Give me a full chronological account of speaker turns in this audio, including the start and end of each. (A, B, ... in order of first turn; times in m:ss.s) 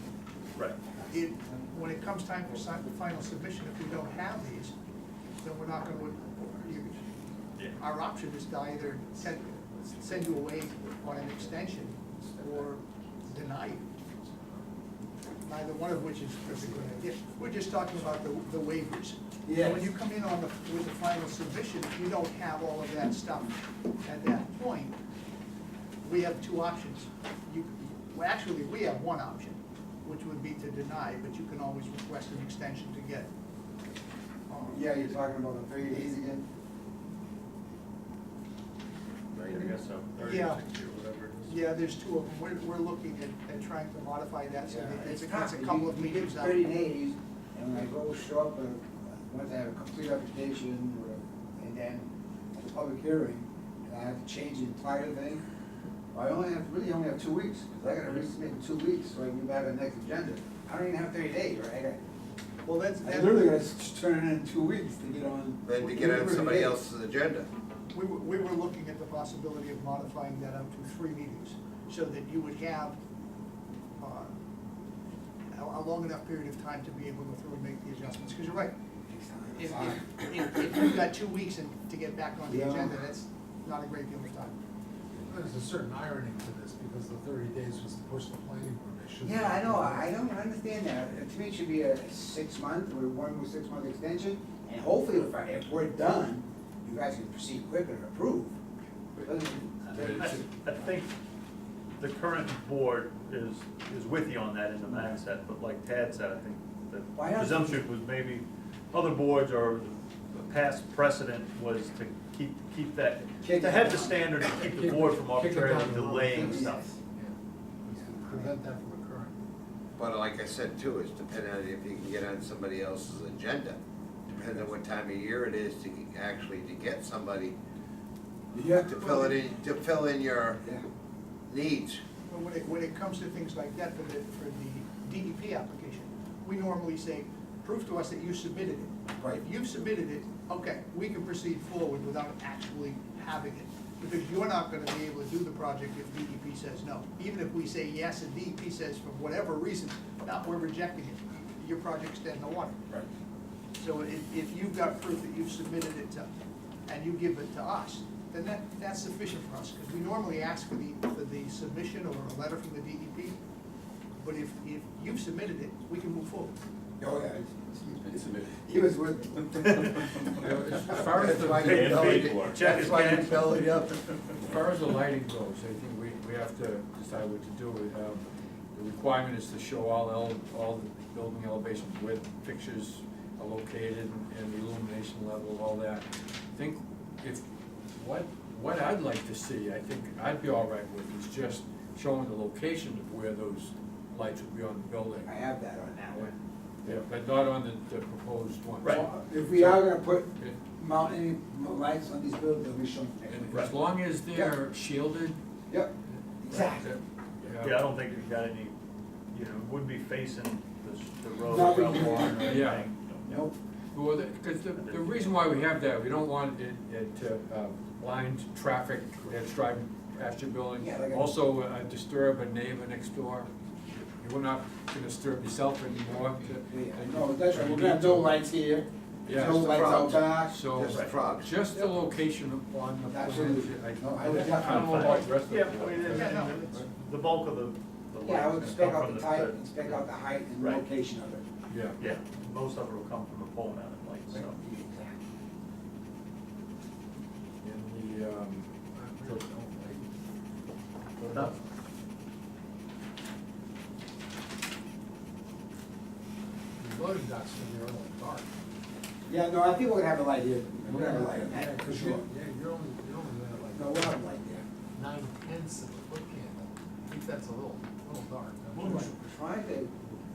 0:00.6-0:00.8 A
0:01.1-0:04.8 B
0:05.4-0:07.0 B
0:07.8-0:13.8 B
0:09.1-0:13.5 C
0:14.0-0:14.6 C
0:15.4-0:25.0 B
0:16.4-0:17.0 C
0:19.4-0:19.9 D
0:26.0-0:33.3 B
0:34.5-0:34.9 B
0:34.6-0:36.4 D
0:39.3-0:41.5 A
0:40.2-0:40.6 B
0:41.4-0:46.7 B
0:44.6-0:55.4 D
0:56.1-1:02.0 D
1:02.6-1:03.5 B
1:03.0-1:06.8 D
1:05.6-1:07.5 E
1:05.8-1:06.2 B
1:07.9-1:13.0 B
1:14.0-1:14.3 B
1:15.5-1:18.7 B
1:19.1-1:20.4 D
1:19.6-1:24.6 B
1:22.5-1:23.0 D
1:25.2-1:30.1 C
1:29.2-1:38.6 D
1:39.2-1:40.4 D
1:39.9-1:41.1 A
1:40.0-1:40.4 F
1:42.0-1:56.9 A
1:47.2-1:47.9 D
1:53.4-1:54.4 D
1:54.6-1:59.4 C
1:56.3-1:56.9 D
1:57.9-1:58.5 D
2:00.0-2:07.6 E
2:08.5-2:09.2 D
2:08.7-2:10.6 E
2:11.5-2:12.0 E
2:12.3-2:32.8 B
2:33.8-2:36.3 B
2:36.9-2:43.4 B
2:44.2-2:46.6 B
2:47.0-2:51.3 D
2:50.3-2:52.4 F
2:51.0-2:54.3 E
2:51.5-2:53.7 A
2:54.4-3:15.3 F
3:15.2-3:16.3 D
3:16.8-3:20.6 F
3:18.9-3:23.8 D
3:23.3-3:25.4 F
3:25.7-3:26.9 D
3:26.5-3:27.9 F
3:27.6-3:28.7 A
3:29.3-3:33.5 A
3:31.5-3:32.6 D
3:32.0-3:32.9 F
3:33.3-3:33.6 D
3:33.9-3:48.4 F
3:34.8-3:35.6 A
3:40.8-3:41.3 D
3:46.7-3:50.6 D
3:49.3-3:49.7 F
3:49.4-3:51.5 E
3:50.5-3:56.8 F
3:50.9-3:51.2 A
3:53.1-3:55.2 D
3:54.4-4:00.1 A
3:56.0-3:56.6 B
3:58.2-4:01.4 D
4:00.6-4:00.8 A
4:01.7-4:02.0 F
4:02.0-4:04.6 A
4:04.3-4:05.2 D
4:07.6-4:09.5 F
4:09.0-4:10.1 C
4:11.2-4:11.6 F
4:16.8-4:18.5 C
4:19.3-4:22.2 D
4:20.9-4:24.2 C
4:23.8-4:24.6 D
4:25.0-4:29.1 C
4:28.8-4:30.0 D